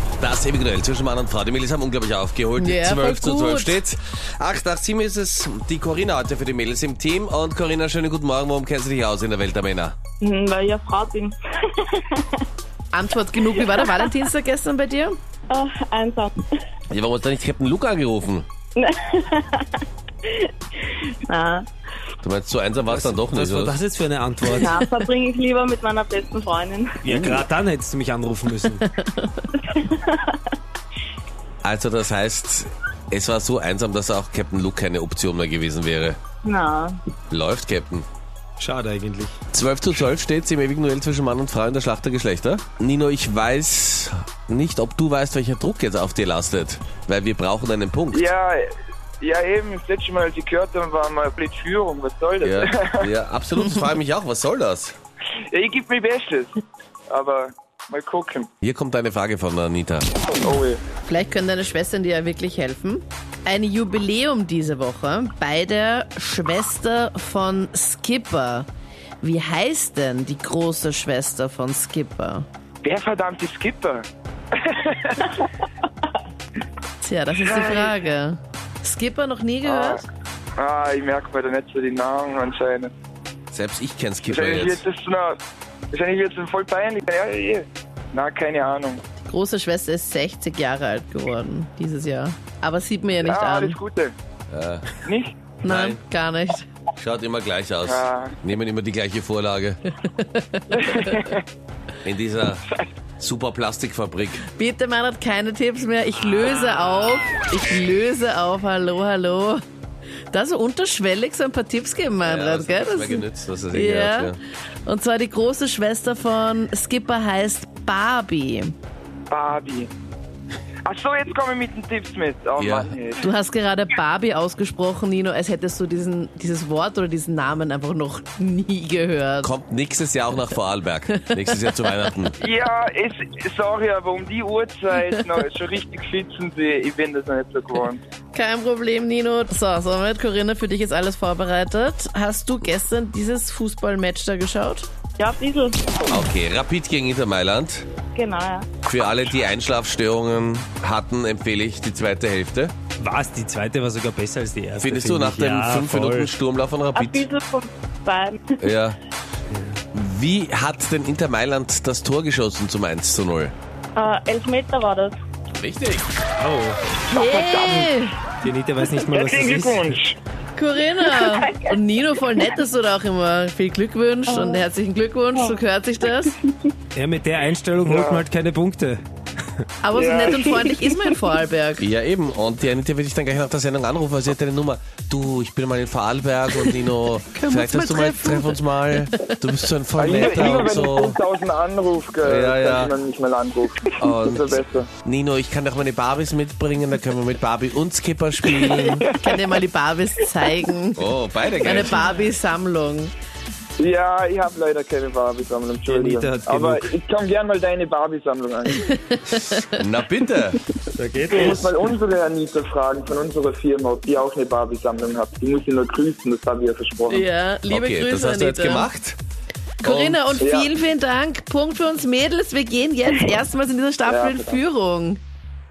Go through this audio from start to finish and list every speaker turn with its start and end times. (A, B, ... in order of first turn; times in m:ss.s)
0:00.2-0:10.0 A
0:02.6-0:03.8 B
0:10.2-0:12.4 C
0:12.9-0:15.2 B
0:15.5-0:16.4 C
0:16.9-0:18.5 A
0:18.8-0:21.7 C
0:22.2-0:23.8 A
0:22.9-0:24.9 D
0:24.5-0:27.0 C
0:27.0-0:28.8 D
0:27.1-0:27.4 A
0:28.9-0:29.5 B
0:29.6-0:30.4 C
0:31.6-0:36.2 A
0:36.4-0:37.0 C
0:37.3-0:38.1 A
0:38.6-0:39.4 D
0:39.5-0:48.2 A
0:48.1-0:48.7 E
0:49.2-0:53.1 E
0:52.4-0:55.0 A
0:55.5-0:58.5 E
0:58.6-1:00.1 A
1:00.4-1:00.8 E
1:01.0-1:08.7 B
1:09.2-1:12.5 B
1:12.8-1:15.4 E
1:17.0-1:20.0 B
1:17.4-1:18.0 E
1:19.6-1:20.0 E
1:20.6-1:22.9 E
1:23.5-1:24.8 A
1:24.2-1:25.4 E
1:25.9-1:29.0 E
1:29.2-1:33.8 B
1:33.2-1:34.1 E
1:34.5-1:34.9 A
1:35.0-1:35.3 E
1:35.6-1:36.0 A
1:35.6-1:36.7 B
1:37.0-1:39.8 A
1:37.8-1:38.4 E
1:40.0-1:41.3 B
1:40.7-1:41.4 E
1:42.0-1:42.6 A
1:43.2-1:44.4 A
1:44.5-1:49.6 B
1:50.3-1:54.3 B
1:52.2-1:54.4 A
1:54.8-1:58.7 B
1:59.3-1:59.9 E
2:00.9-2:03.3 E
2:02.6-2:02.9 A
2:03.2-2:09.5 B
2:09.4-2:12.4 A
2:12.4-2:18.0 E
2:18.3-2:24.9 B
2:25.2-2:26.0 C
2:26.1-2:27.9 A
2:28.2-2:28.7 C
2:28.8-2:32.7 A
2:33.0-2:36.3 D
2:34.8-2:37.2 A
2:37.0-2:38.5 C
2:38.6-2:39.0 A
2:39.5-2:39.8 D
2:39.9-2:43.5 A
2:44.0-2:45.1 C
2:45.6-2:46.1 A
2:46.4-2:46.8 D
2:47.1-2:47.9 E
2:47.1-2:48.2 B
2:48.4-2:50.0 D
2:49.0-2:50.2 E
2:50.6-2:56.4 B
2:51.0-2:51.7 C
2:54.3-2:54.6 C
2:57.0-2:59.0 D
2:57.9-2:58.2 E
2:59.8-3:01.9 B
3:00.0-3:00.7 E
3:01.8-3:11.2 A
3:07.3-3:09.3 B
3:10.0-3:14.9 E
3:12.2-3:12.9 A
3:14.0-3:19.0 A
3:18.5-3:21.0 B
3:18.6-3:19.4 E
3:21.0-3:22.1 A
3:21.6-3:23.1 B
3:23.8-3:28.8 E
3:25.9-3:26.9 D
3:28.9-3:29.7 B
3:29.7-3:30.6 A
3:31.0-3:31.7 D
3:31.3-3:37.3 E
3:37.1-3:38.9 B
3:37.7-3:39.2 A
3:39.8-3:45.2 B
3:39.8-3:40.3 A
3:40.4-3:40.7 E
3:44.1-3:44.6 E